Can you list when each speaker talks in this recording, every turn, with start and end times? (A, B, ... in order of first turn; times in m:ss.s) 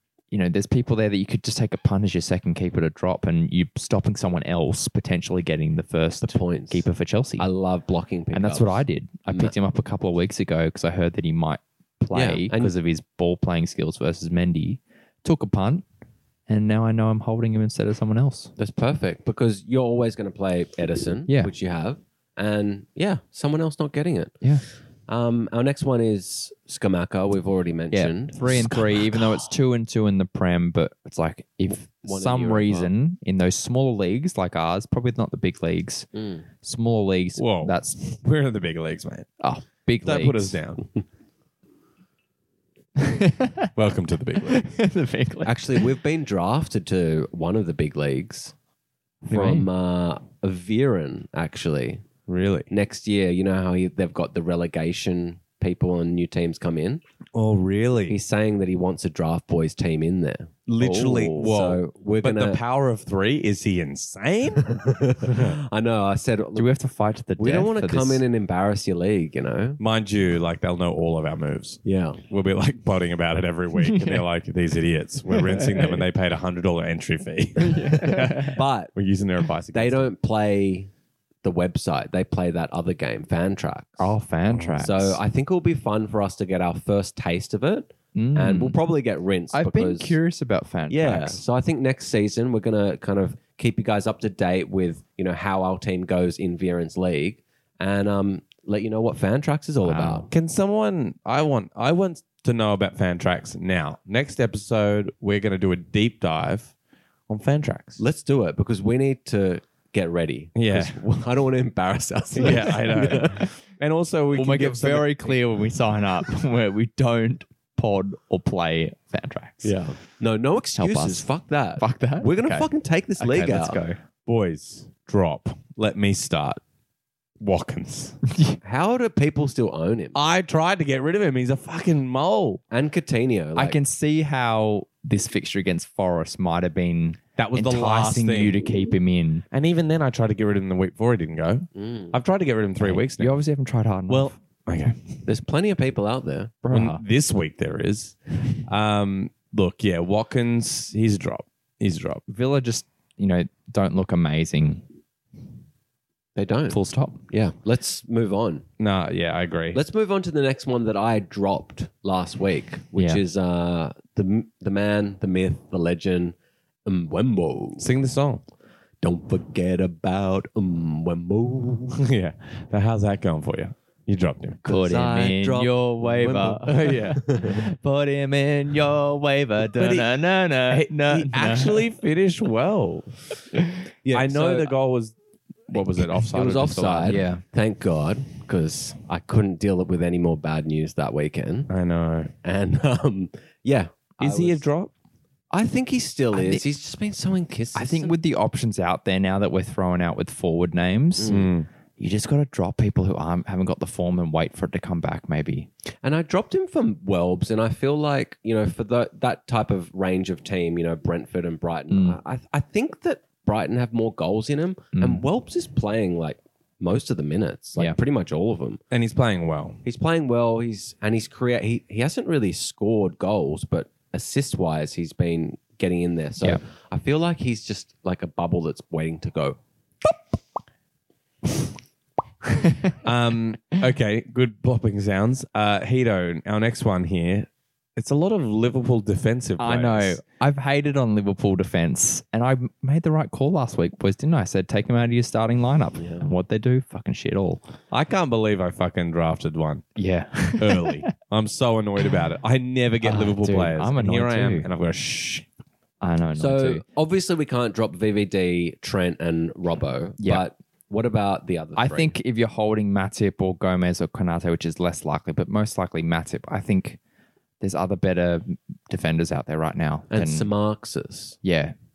0:00.3-0:07.5 A
0:06.2-0:06.9 B
0:07.4-0:09.5 B
0:08.3-0:15.8 A
0:12.1-0:12.7 B
0:16.5-0:18.5 A
0:18.6-0:24.4 B
0:21.3-0:21.5 A
0:25.1-0:29.4 B
0:27.9-0:36.1 A
0:31.7-0:32.9 B
0:36.1-0:36.5 B
0:36.6-0:38.0 A
0:37.4-0:39.3 C
0:39.4-0:40.6 A
0:40.0-0:40.9 C
0:43.0-0:43.7 A
0:43.8-0:44.7 C
0:44.4-0:45.9 A
0:45.4-0:48.5 B
0:49.3-0:52.0 B
0:49.3-0:49.7 A
0:52.3-0:52.7 C
0:52.7-0:57.0 B
0:57.3-0:58.2 C
0:58.1-1:02.6 B
1:00.7-1:05.5 C
1:04.7-1:06.7 B
1:06.6-1:08.2 A
1:07.4-1:09.8 B
1:09.8-1:20.1 C
1:11.8-1:12.2 B
1:13.8-1:14.2 A
1:15.3-1:16.0 A
1:17.6-1:18.6 A
1:18.4-1:18.9 B
1:19.7-1:20.9 B
1:21.4-1:24.1 B
1:24.0-1:25.2 A
1:24.8-1:30.2 B
1:28.2-1:28.8 A
1:29.5-1:31.4 A
1:30.9-1:40.3 B
1:39.8-1:40.3 A
1:40.3-1:46.7 C
1:47.3-1:48.0 C
1:48.0-1:53.5 B
1:50.6-1:51.0 C
1:52.4-1:55.4 C
1:52.4-1:53.5 A
1:54.3-1:59.8 A
1:59.6-2:03.8 B
2:00.8-2:04.0 A
2:04.2-2:06.6 C
2:07.4-2:08.2 C
2:08.3-2:08.6 A
2:08.6-2:10.2 B
2:10.2-2:12.6 C
2:12.7-2:13.8 B
2:13.6-2:19.4 A
2:17.4-2:18.6 C
2:19.5-2:23.4 C
2:21.8-2:22.2 B
2:22.8-2:24.3 A
2:24.1-2:25.2 C
2:25.3-2:26.5 B
2:26.6-2:27.0 A
2:26.7-2:32.2 C
2:32.3-2:34.8 A
2:36.4-2:38.7 B
2:36.7-2:37.2 A
2:38.8-2:39.8 C
2:39.7-2:46.4 B
2:43.0-2:43.2 A
2:46.9-2:47.9 B
2:47.8-2:48.4 C
2:49.0-2:52.0 B
2:52.0-2:54.6 C
2:54.6-2:57.6 B
2:54.6-3:01.9 A
2:56.7-2:57.2 C
2:59.8-3:00.1 C
3:00.6-3:03.1 C
3:04.0-3:04.7 B
3:04.1-3:05.2 C
3:05.7-3:07.2 C
3:06.3-3:11.7 B
3:07.1-3:07.4 A
3:11.7-3:12.3 C
3:12.4-3:14.6 B
3:14.2-3:14.9 C
3:15.5-3:18.2 B
3:16.3-3:16.6 A
3:17.8-3:21.4 A
3:21.2-3:21.5 B
3:21.3-3:21.7 C
3:22.0-3:25.7 A
3:26.0-3:38.8 B
3:31.9-3:32.2 A
3:35.0-3:35.2 A
3:38.9-3:39.8 C
3:39.8-3:49.6 B
3:52.6-3:53.0 A
3:53.0-4:00.2 C
3:59.6-4:07.6 A
4:06.0-4:06.3 B
4:07.9-4:09.9 C
4:10.0-4:11.0 A
4:10.6-4:15.5 C
4:13.0-4:14.7 A
4:16.0-4:16.8 A
4:16.4-4:22.2 B
4:20.2-4:20.4 A
4:21.8-4:27.0 A
4:27.6-4:30.5 A
4:30.1-4:31.4 B
4:31.4-4:31.8 A